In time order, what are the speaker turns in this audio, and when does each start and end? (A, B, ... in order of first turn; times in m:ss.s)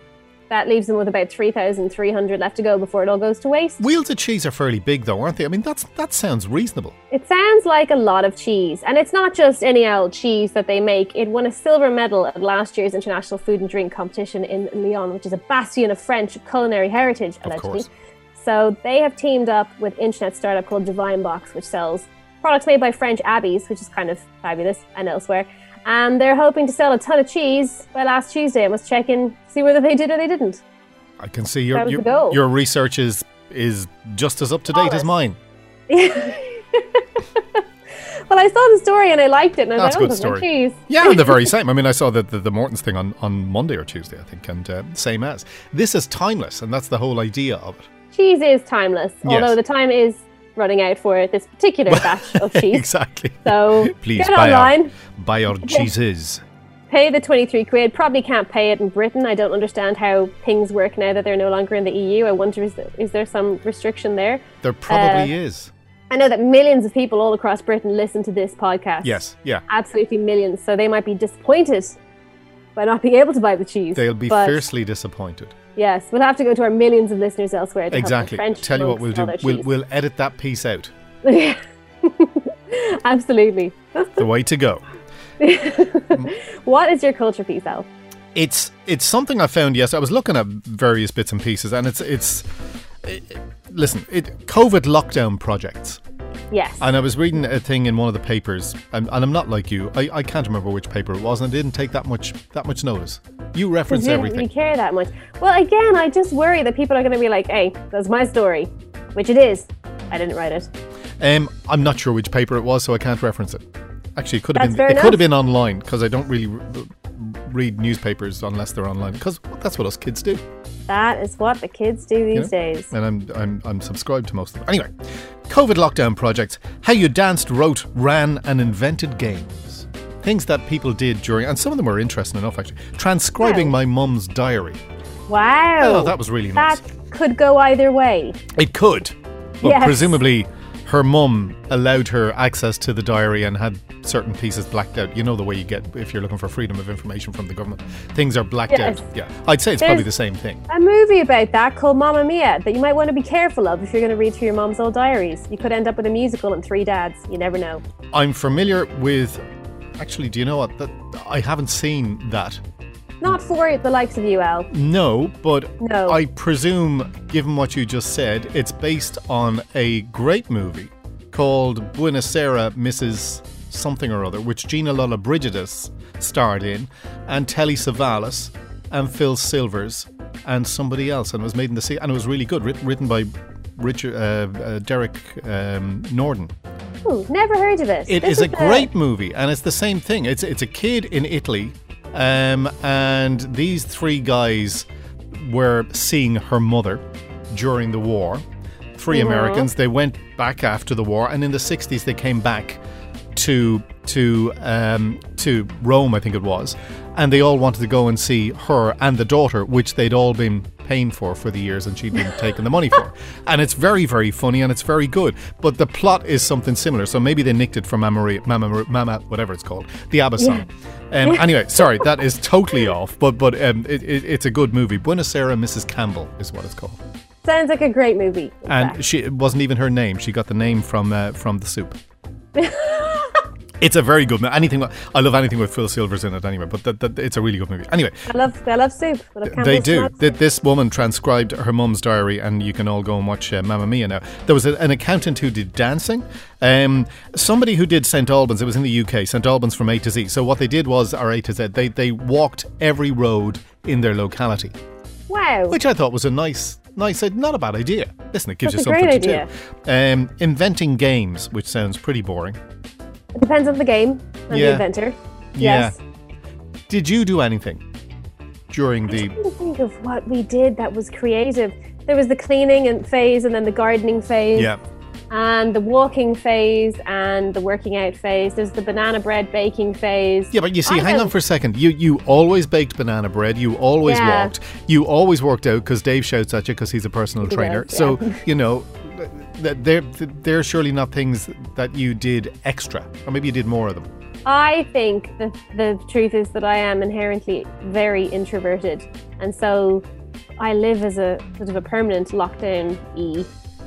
0:00.5-0:03.8 A
0:03.8-0:06.9 B
0:07.1-0:30.6 A
0:17.4-0:17.9 B
0:31.2-0:35.4 B
0:31.7-0:32.4 A
0:34.7-0:35.0 A
0:35.9-0:37.6 A
0:38.3-0:41.5 A
0:39.8-0:47.9 B
0:48.1-0:52.9 A
0:49.2-0:49.6 B
0:51.9-0:56.4 B
0:53.4-0:54.9 A
0:55.6-0:55.9 A
0:56.9-1:05.3 A
1:04.6-1:05.7 B
1:06.1-1:12.0 A
1:09.0-1:09.6 B
1:12.8-1:14.7 A
1:14.0-1:15.6 B
1:15.8-1:19.7 A
1:17.9-1:20.9 B
1:21.2-1:24.2 A
1:24.2-1:24.8 B
1:25.4-1:27.9 A
1:28.4-1:32.4 B
1:33.0-1:36.0 B
1:36.5-1:36.9 A
1:36.8-1:44.5 B
1:43.9-1:50.7 A
1:51.2-1:53.6 B
1:54.2-2:00.4 B
1:54.5-1:55.2 A
2:00.9-2:02.9 A
2:02.3-2:04.9 B
2:05.5-2:14.8 B
2:13.4-2:13.7 A
2:15.3-2:18.4 A
2:15.8-2:16.8 B
2:18.5-2:30.6 B
2:19.6-2:20.2 A
2:28.7-2:29.0 A
2:29.8-2:30.1 A
2:30.7-2:37.8 A
2:38.1-2:39.4 B
2:40.0-2:42.6 B
2:43.2-2:44.7 A
2:44.7-3:06.5 B
2:45.8-2:46.2 A
3:07.0-3:08.9 A
3:08.1-3:18.4 B
3:19.0-3:22.8 B
3:19.1-3:19.7 A
3:23.3-3:47.0 B
3:40.4-3:40.6 A
3:41.2-3:42.0 A
3:47.4-3:49.0 A
3:48.7-3:52.0 B
3:52.6-3:53.4 A
3:53.8-3:58.3 B
3:58.3-4:00.3 A
3:59.5-4:14.7 B
4:15.3-4:15.8 A
4:15.7-4:22.6 B
4:18.6-4:19.5 A
4:23.4-4:26.0 A
4:24.5-4:24.9 B
4:25.6-4:26.0 B
4:26.9-4:27.8 B
4:28.7-4:29.4 B
4:29.1-4:34.7 A
4:35.3-4:41.3 A
4:40.5-4:54.1 B
4:44.0-4:44.5 A
4:47.4-4:48.4 A
4:54.4-5:00.0 A
5:00.6-5:03.5 A